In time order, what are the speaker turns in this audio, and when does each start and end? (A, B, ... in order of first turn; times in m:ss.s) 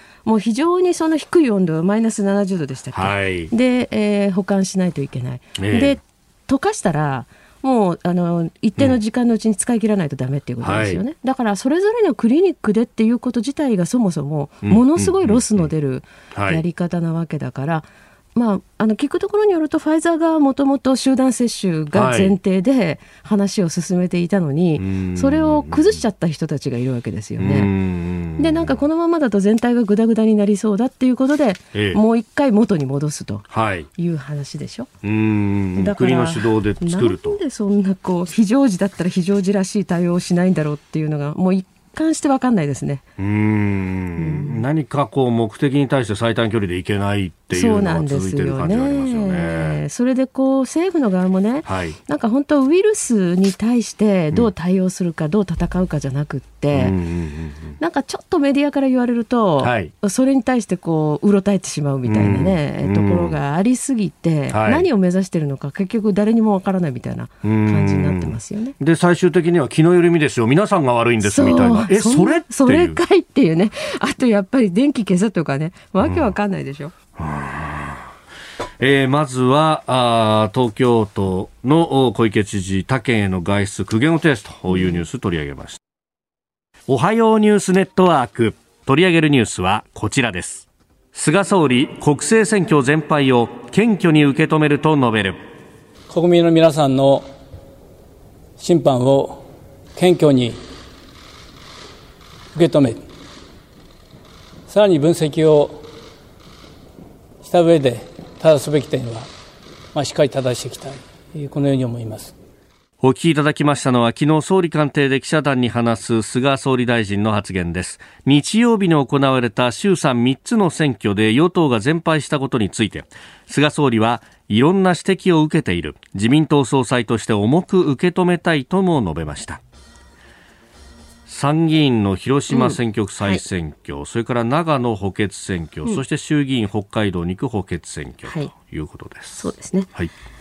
0:00.2-0:27.7 A
0:02.9-0:03.5 B
0:05.6-0:06.0 B
0:10.6-0:11.0 B
0:14.6-0:15.7 B
0:16.3-0:16.6 B
0:21.9-0:22.4 B
0:24.8-0:26.0 B
0:27.4-0:28.8 B
0:28.4-0:34.9 A
0:31.7-0:32.0 B
0:33.5-0:33.9 B
0:35.0-0:37.4 B
0:35.8-0:43.0 A
0:43.2-0:49.8 B
0:44.2-0:44.7 A
0:47.5-0:57.0 A
0:51.7-0:52.0 B
0:56.7-0:57.8 B
0:57.8-1:08.8 A
0:59.6-0:59.9 B
1:02.0-1:03.4 B
1:04.5-1:04.9 B
1:07.4-1:13.0 B
1:11.2-1:16.9 A
1:16.0-1:16.3 B
1:17.2-1:18.1 B
1:18.8-1:25.8 B
1:24.7-1:25.0 A
1:26.9-1:35.4 B
1:36.1-1:37.3 C
1:38.6-1:39.4 C
1:40.0-1:40.6 C
1:42.5-1:43.0 C
1:44.7-1:45.8 C
1:47.4-1:49.3 C
1:49.9-1:52.3 C
1:53.0-2:09.6 B
2:11.3-2:20.1 B
2:12.5-2:13.4 A
2:18.2-2:18.5 A
2:19.4-2:19.9 A